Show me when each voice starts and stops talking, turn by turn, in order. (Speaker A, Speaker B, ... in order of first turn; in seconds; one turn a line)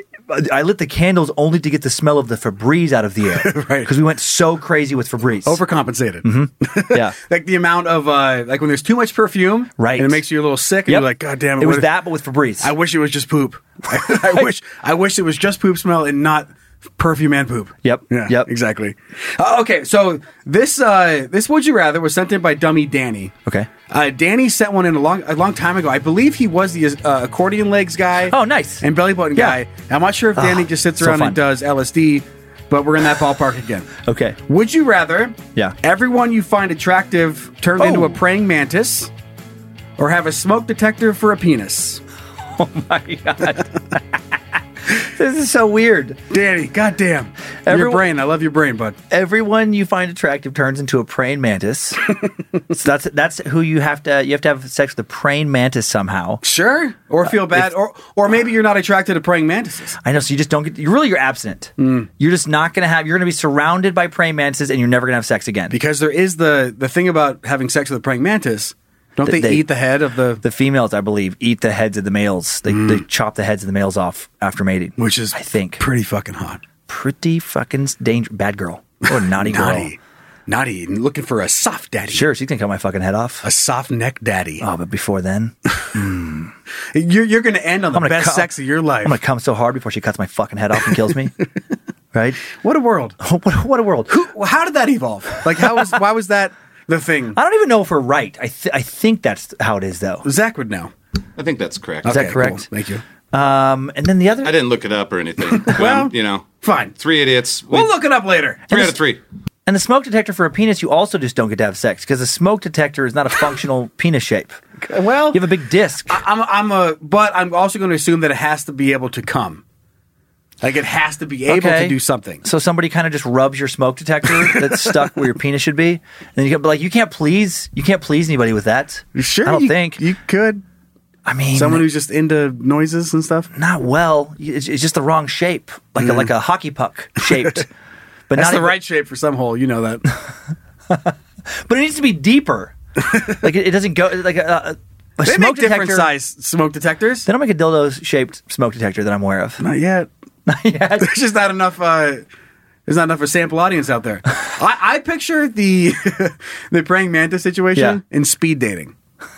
Speaker A: 0.3-5.6
Speaker B: 3.3-3.9
Speaker B: 5.4-12.0
Speaker A: 6.2-7.2
Speaker A: 9.8-10.2
Speaker A: 10.9-12.7
Speaker B: 12.6-23.3
Speaker A: 14.0-14.3
Speaker A: 17.8-18.5
Speaker B: 23.9-33.9
Speaker A: 28.3-29.6
Speaker A: 30.4-31.4
Speaker A: 34.0-34.4
Speaker B: 34.5-39.1
Speaker A: 37.8-38.1
Speaker B: 40.0-42.0
Speaker A: 42.6-44.2
Speaker A: 44.9-46.2
Speaker B: 46.3-49.0
Speaker A: 47.6-48.0
Speaker A: 49.1-52.1
Speaker A: 52.7-56.4
Speaker B: 56.4-60.0
Speaker A: 57.2-57.7
Speaker A: 60.0-65.8
Speaker B: 61.8-62.1
Speaker B: 65.7-70.4
Speaker A: 69.2-69.7
Speaker A: 70.4-75.8
Speaker B: 72.7-73.0
Speaker B: 75.0-76.6
Speaker A: 76.9-79.9
Speaker B: 79.1-82.3
Speaker A: 82.1-83.5
Speaker B: 83.4-84.6
Speaker A: 84.6-86.5
Speaker B: 86.9-89.2
Speaker A: 87.9-88.5
Speaker A: 89.0-91.3
Speaker A: 92.1-92.4
Speaker B: 92.5-93.2
Speaker A: 93.2-94.1
Speaker B: 94.1-97.4
Speaker A: 97.3-100.3
Speaker B: 100.2-100.9
Speaker C: 101.4-102.1
Speaker B: 102.0-103.0
Speaker A: 102.0-102.7
Speaker A: 103.3-104.5
Speaker C: 104.4-107.9
Speaker B: 105.6-107.0
Speaker B: 107.7-108.9
Speaker C: 108.7-109.2
Speaker A: 109.7-114.5
Speaker B: 114.8-115.5
Speaker A: 115.3-116.2
Speaker B: 116.1-119.6
Speaker B: 120.6-122.4
Speaker A: 121.5-130.0
Speaker B: 124.3-125.1
Speaker B: 129.1-130.6
Speaker A: 131.2-131.8
Speaker B: 131.5-133.5
Speaker A: 133.5-137.7
Speaker B: 136.0-136.3
Speaker B: 137.2-137.5
Speaker A: 138.3-138.8
Speaker B: 138.3-140.1
Speaker A: 140.9-142.7
Speaker A: 143.2-146.1
Speaker B: 145.2-147.3
Speaker A: 147.2-149.6
Speaker B: 149.6-150.1
Speaker A: 150.4-151.2
Speaker B: 151.0-152.2
Speaker B: 152.9-158.9
Speaker A: 157.7-158.0